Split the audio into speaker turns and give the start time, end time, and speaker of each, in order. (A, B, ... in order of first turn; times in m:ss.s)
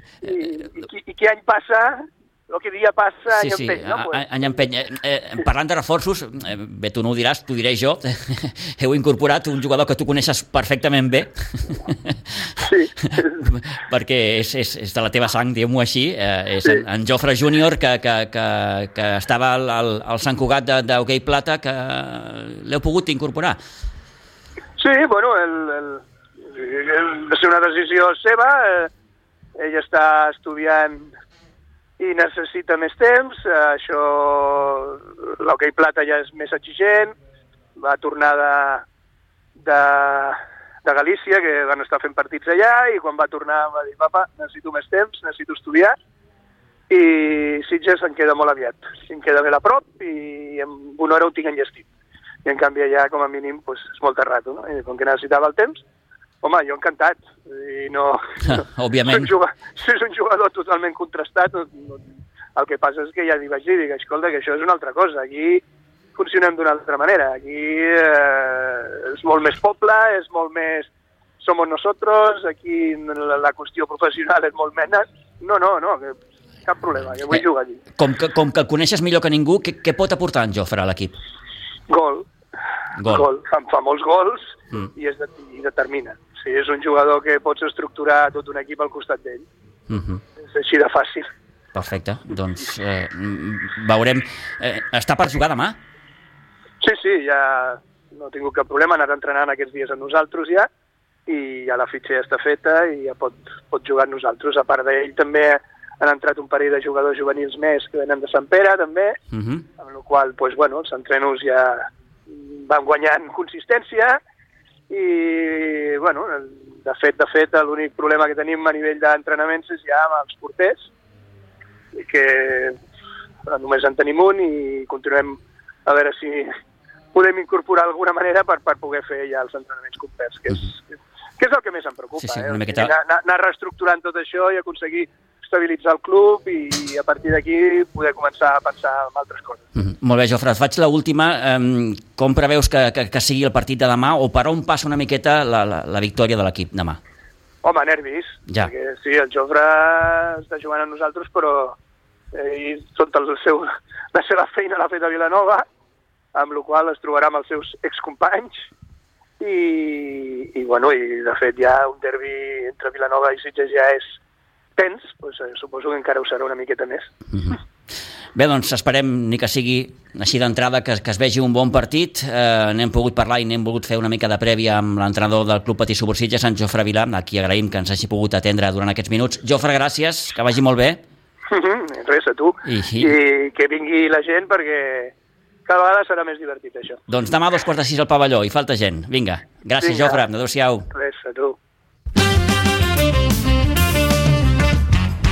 0:00.2-0:04.3 A
0:03.3-0:12.2 B
0:12.6-0:13.3 A
0:13.1-0:23.6 B
0:24.8-0:28.9 A
0:29.6-0:31.1 A
0:32.0-0:37.2 A
0:37.8-0:38.8 A
0:39.6-0:46.0 A
0:46.9-0:51.8 A
0:52.4-0:55.8 A
0:56.4-1:02.0 A
0:58.5-0:59.3 B
1:02.6-1:05.6 A
1:06.1-1:17.8 A
1:18.0-1:21.1 B
1:21.9-1:22.3 A
1:23.0-1:23.3 B
1:23.1-1:29.5 A
1:29.9-1:30.2 B
1:30.4-1:31.3 A
1:31.7-1:35.8 B
1:36.8-1:40.7 A
1:41.3-1:49.2 A
1:49.3-1:49.6 B
1:49.8-1:54.2 A
1:54.9-2:00.9 A
2:02.0-2:02.8 A
2:03.5-2:06.5 A
2:07.1-2:10.8 A
2:11.4-2:19.6 A
2:12.2-2:12.9 B
2:19.8-2:27.0 B
2:27.6-2:31.8 A
2:32.3-2:35.6 A
2:36.3-2:38.7 A
2:39.4-2:44.2 A
2:44.8-2:47.1 A
2:48.3-3:01.0 B
3:01.5-3:05.1 A
3:02.6-3:03.2 B
3:05.6-3:07.0 A
3:07.1-3:10.9 B
3:09.8-3:10.2 A
3:10.9-3:11.6 A